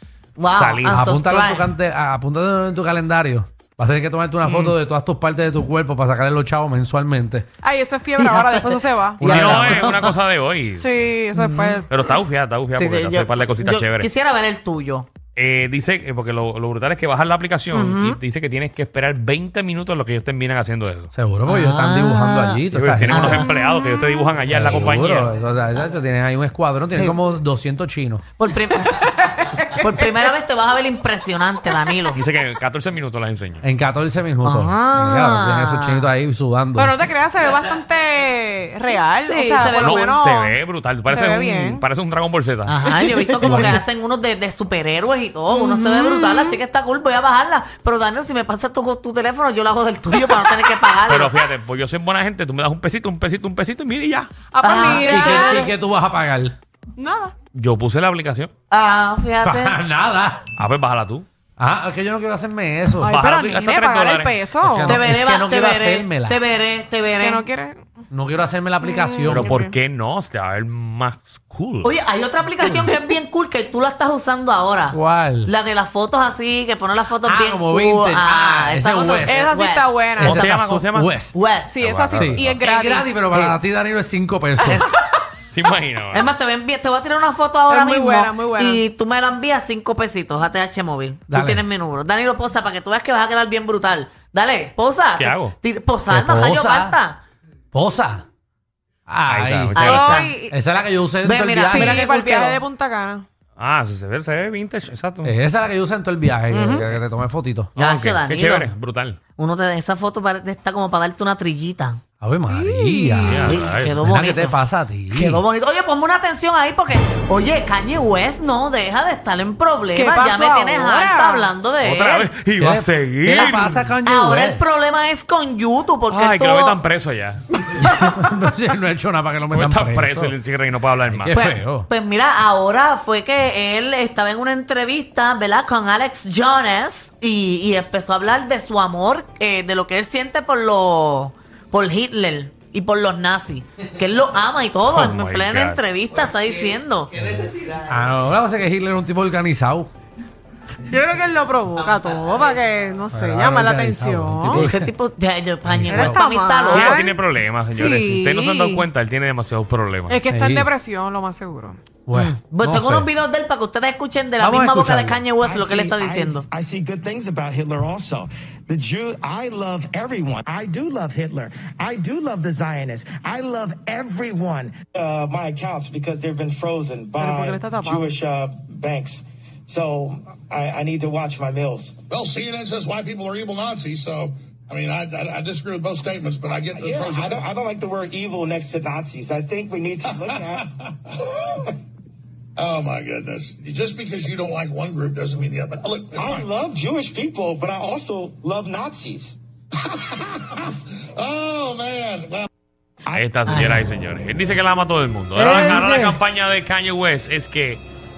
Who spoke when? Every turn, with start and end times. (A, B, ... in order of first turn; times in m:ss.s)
0:00.4-0:01.7 A
0:00.5-0:01.0 B
0:00.9-0:07.5 C
0:04.4-0:04.8 B
0:07.6-0:09.2 D
0:08.2-0:10.1 A
0:09.2-0:10.0 C
0:09.2-0:11.0 B
0:10.8-0:11.9 D
0:11.3-0:12.2 A
0:11.9-0:14.1 B
0:12.7-0:15.1 A
0:15.4-0:21.1 B
0:17.7-0:18.2 A
0:21.1-0:23.4 C
0:21.4-0:23.5 A
0:22.7-0:25.3 B
0:23.6-0:24.1 D
0:24.5-0:28.2 C
0:28.4-0:29.1 A
0:28.7-0:30.3 D
0:29.7-0:32.2 A
0:32.1-0:33.6 B
0:33.6-0:36.9 C
0:34.4-0:36.1 A
0:36.8-0:41.8 D
0:39.2-0:40.0 A
0:39.7-0:42.9 B
0:42.6-0:51.4 A
0:43.2-0:43.6 D
0:43.4-0:43.8 B
0:45.5-0:46.6 D
0:51.1-0:54.3 B
0:54.5-0:55.7 D
0:54.6-0:55.7 A
0:54.7-0:56.6 C
0:57.0-0:57.3 D
0:57.5-0:58.5 B
0:58.7-0:59.8 A
0:59.4-1:00.4 C
1:00.6-1:01.2 B
1:01.6-1:03.2 C
1:03.0-1:05.0 D
1:03.1-1:04.3 B
1:04.6-1:06.4 C
1:04.8-1:07.4 A
1:07.2-1:07.8 D
1:08.1-1:09.5 C
1:08.8-1:09.8 D
1:09.3-1:11.9 B
1:11.8-1:20.7 A
1:12.6-1:12.9 C
1:14.9-1:15.5 C
1:17.2-1:19.4 C
1:19.2-1:20.4 D
1:20.2-1:21.5 C
1:20.2-1:21.2 B
1:21.3-1:22.2 A
1:21.6-1:23.2 D
1:21.8-1:22.6 B
1:22.1-1:24.8 C
1:24.6-1:24.9 A
1:25.5-1:26.3 B
1:26.1-1:37.2 A
1:27.7-1:28.8 D
1:31.3-1:31.6 C
1:35.2-1:35.6 B
1:36.1-1:37.0 C
1:37.7-1:38.2 C
1:39.1-1:42.0 C
1:39.3-1:40.2 B
1:39.8-1:40.3 A
1:39.8-1:40.5 D
1:41.2-1:42.6 A
1:41.7-1:43.2 D
1:43.6-1:45.3 B
1:45.2-1:47.7 C
1:46.5-1:46.9 A
1:47.8-1:49.2 B
1:47.8-1:48.7 A
1:49.4-1:52.0 A
1:52.2-1:55.4 C
1:52.5-1:53.4 D
1:53.2-1:54.0 B
1:53.4-1:54.6 A
1:55.1-2:02.3 A
1:59.9-2:01.5 D
2:01.8-2:03.8 B
2:02.6-2:04.7 C
2:03.3-2:06.8 A
2:06.1-2:07.4 B
2:07.8-2:10.4 C
2:09.5-2:11.3 B
2:11.1-2:11.9 C
2:11.3-2:27.1 A
2:24.9-2:25.8 B
2:27.4-2:29.9 C
2:30.9-2:34.6 D
2:33.1-2:34.9 C
2:34.5-2:37.0 A
2:35.6-2:36.3 C
2:35.9-2:37.2 D
2:36.7-2:40.2 B
2:37.7-2:38.9 D
2:40.1-2:41.8 D
2:40.3-2:40.7 C
2:42.0-2:43.1 C
2:42.1-2:46.5 A
2:44.4-2:45.2 C
2:45.4-3:02.0 E
2:57.2-2:58.1 D
3:02.1-3:07.5 F
3:06.7-3:10.6 E
3:10.0-3:10.6 F
3:11.4-3:11.7 E
3:12.6-3:16.5 F
3:16.2-3:19.4 E
3:19.9-3:20.6 F
3:21.1-3:22.5 F
3:23.1-3:27.8 B
3:23.5-3:23.9 A
3:25.3-3:26.2 C